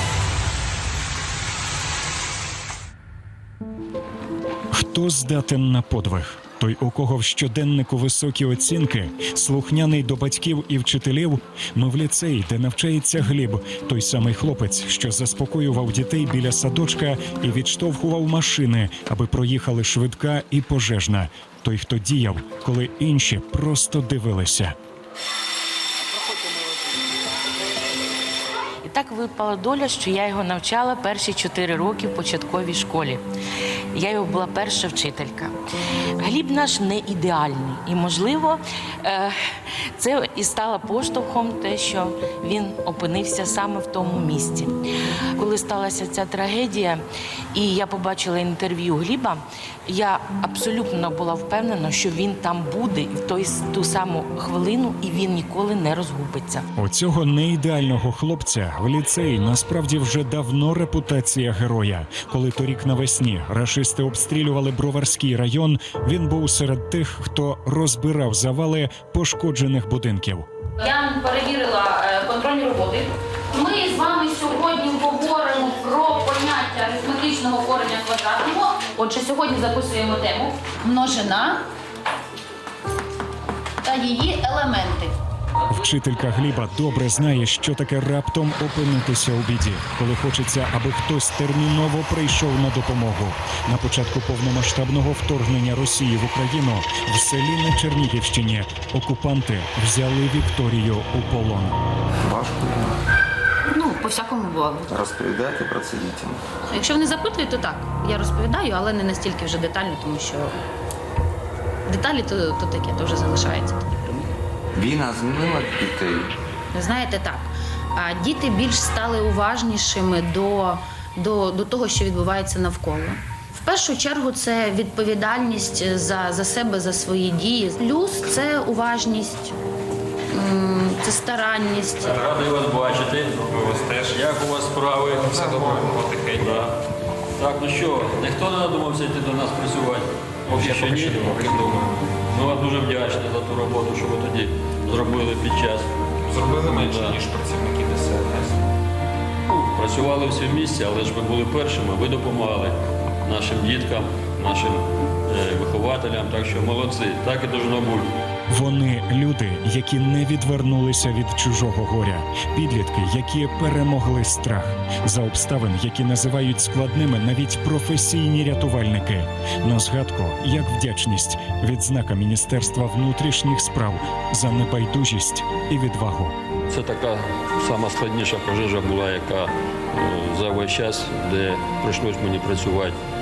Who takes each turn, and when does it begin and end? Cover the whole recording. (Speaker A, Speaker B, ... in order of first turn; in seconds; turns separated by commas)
Speaker A: 4.7-24.7, Speaker B: 28.8-33.2, Speaker B: 33.9-35.5, Speaker B: 36.2-39.3, Speaker B: 40.0-44.7, Speaker B: 45.4-47.0, Speaker B: 47.5-56.6, Speaker A: 56.8-70.5, Speaker C: 70.8-81.6, Speaker C: 83.8-85.1, Speaker A: 85.7-101.7, Speaker D: 102.2-102.9, Speaker C: 103.7-104.8, Speaker D: 104.9-106.4, Speaker C: 106.7-110.5, Speaker C: 111.9-114.2, Speaker D: 114.8-116.3, Speaker C: 116.7-129.6, Speaker C: 130.3-132.1, Speaker E: 132.0-136.8, Speaker F: 133.5-134.3, Speaker F: 135.2-136.6, Speaker E: 137.4-145.9, Speaker F: 140.5-142.1, Speaker F: 146.2-148.6, Speaker E: 146.6-147.2, Speaker E: 149.5-158.1, Speaker A: 158.5-176.3, Speaker E: 176.7-183.0